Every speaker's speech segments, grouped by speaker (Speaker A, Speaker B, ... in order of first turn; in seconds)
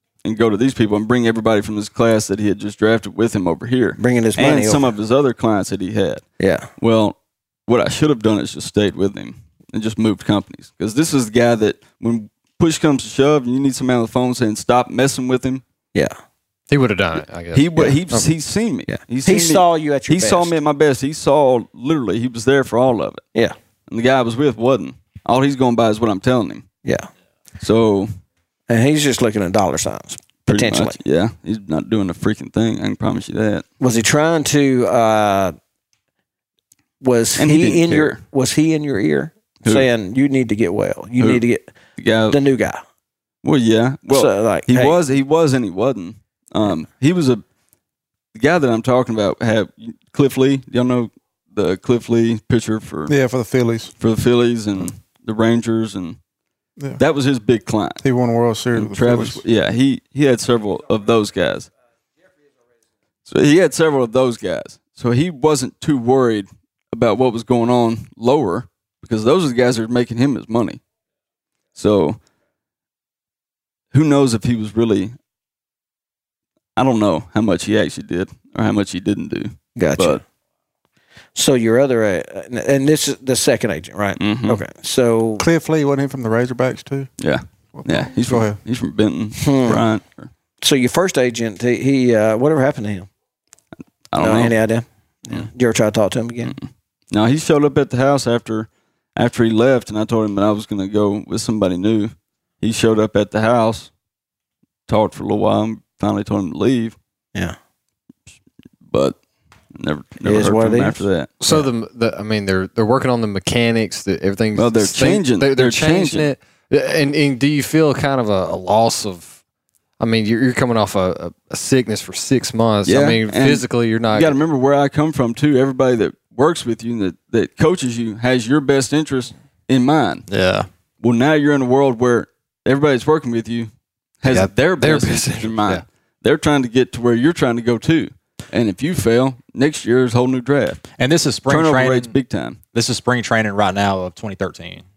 Speaker A: 0.2-6.2, 6.8-7.2, 7.7-15.6, 17.5-23.2, 23.9-26.6, 27.6-28.1, 30.4-33.6, 37.4-38.2, 42.0-42.4, 43.4-47.4, 48.3-53.1, 54.0-56.2, 57.0-58.0, 58.7-61.7, 63.3-70.8, 71.8-72.2, 73.9-75.1, 76.8-80.2, 84.2-84.6, 87.2-90.3, 94.1-94.5, 96.5-103.9, 104.9-107.0, 108.9-109.2, 109.7-111.3, 114.5-116.3, 122.8-130.2, 131.0-133.7, 134.2-140.8, 141.4-142.6
Speaker B: 4.0-4.8, 6.4-6.7, 18.9-20.6, 28.7-31.0, 33.8-35.5, 37.0-41.6, 42.3-42.8, 44.1-45.0, 79.8-80.2, 81.3-85.4, 89.4-89.8, 90.6-93.1, 94.2-96.5, 110.2-111.6
Speaker C: 16.7-18.3, 111.4-119.3, 120.0-124.3, 134.3-135.8
Speaker D: 53.1-53.9, 58.0-59.4, 85.4-87.1, 87.7-88.6
Speaker E: 130.3-130.7, 141.0-142.1, 142.7-144.8